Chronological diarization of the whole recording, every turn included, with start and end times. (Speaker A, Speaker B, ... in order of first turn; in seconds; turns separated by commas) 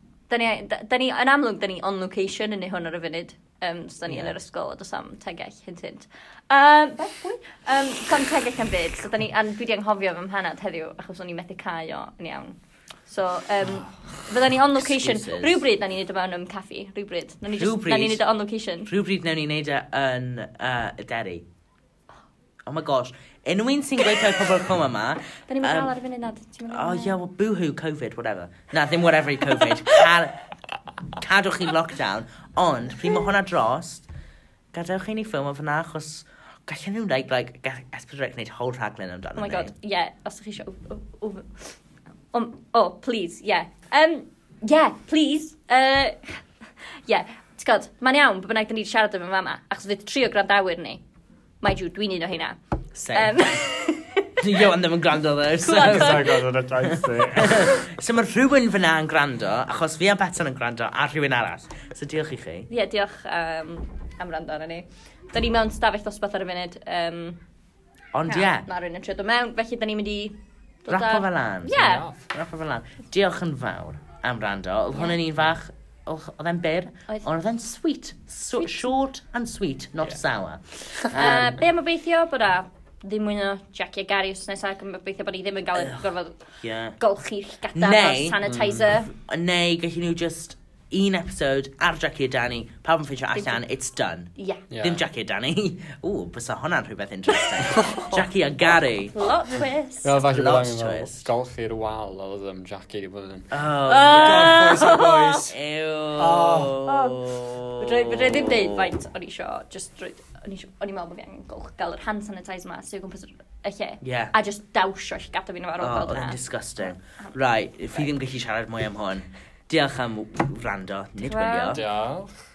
Speaker A: 0.3-18.9, Speaker B: 4.1-4.3, Speaker B: 14.7-15.6, Speaker B: 17.5-18.2, Speaker B: 18.9-21.4, Speaker B: 22.7-25.9, Speaker A: 25.4-27.2, Speaker B: 26.7-30.4, Speaker B: 31.1-34.1, Speaker B: 34.7-39.7, Speaker A: 39.4-41.8, Speaker A: 42.3-46.4, Speaker A: 47.0-51.0, Speaker A: 51.6-52.6, Speaker B: 53.0-53.4, Speaker A: 53.1-54.7, Speaker B: 54.4-62.7, Speaker A: 55.6-56.5, Speaker C: 55.7-57.8, Speaker A: 62.7-67.4, Speaker B: 68.1-68.7, Speaker A: 68.3-72.1, Speaker B: 70.9-81.6, Speaker C: 71.7-72.2, Speaker A: 78.6-78.8, Speaker A: 81.1-86.4, Speaker B: 85.8-86.0, Speaker B: 86.6-87.0, Speaker A: 87.0-89.1, Speaker B: 87.8-99.2, Speaker C: 88.5-88.9, Speaker A: 93.3-93.6, Speaker A: 94.4-94.6, Speaker C: 94.7-95.1, Speaker C: 97.7-98.2, Speaker A: 99.1-100.1, Speaker C: 100.0-103.5, Speaker B: 100.2-101.3, Speaker B: 103.5-108.9, Speaker A: 103.9-105.5, Speaker C: 104.2-105.6, Speaker C: 106.2-106.8, Speaker A: 106.8-117.3, Speaker B: 114.0-114.3, Speaker B: 115.8-121.8, Speaker A: 121.2-121.8, Speaker C: 121.7-122.4